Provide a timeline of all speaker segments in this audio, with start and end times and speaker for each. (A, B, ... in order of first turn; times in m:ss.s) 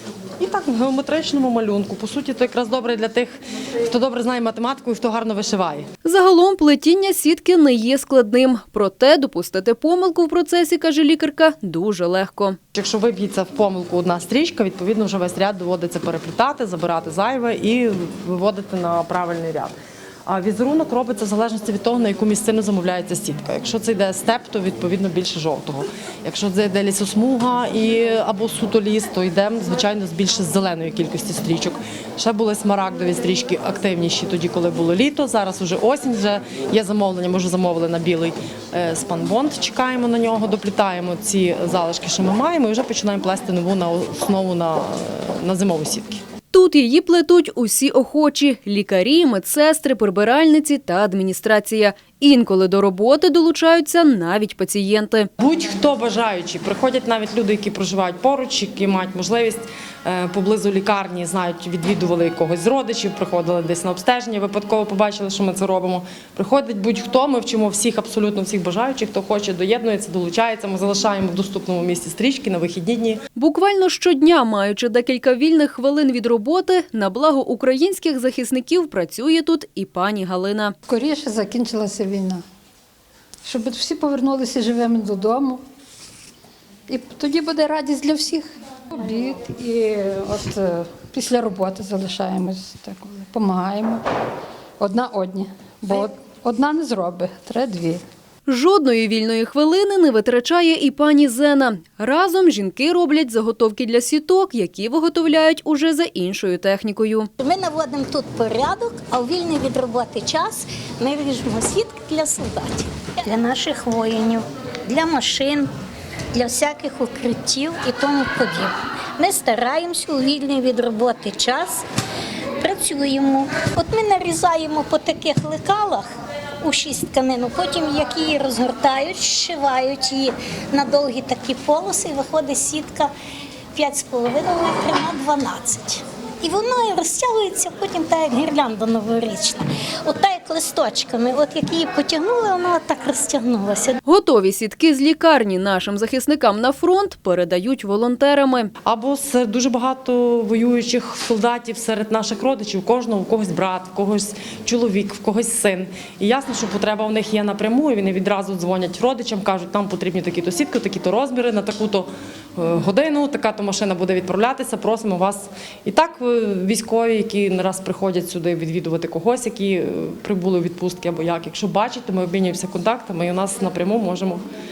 0:00.4-0:05.9 A
0:06.0-0:12.6 B
0:12.7-0:19.7 A
0:20.3-0:46.2 A
0:46.5-0:55.3 B
0:55.4-1:13.2 A
1:13.3-1:20.8 B
1:20.8-1:22.4 C
1:23.4-1:25.6 C
1:26.9-1:34.0 C
1:34.8-1:38.0 C
1:38.4-1:47.3 B
1:47.4-1:55.7 D
1:56.3-2:01.8 D
2:02.6-2:06.1 D
2:06.6-2:13.1 D
2:13.7-2:24.0 D
2:24.0-2:28.7 B
2:28.8-2:54.4 A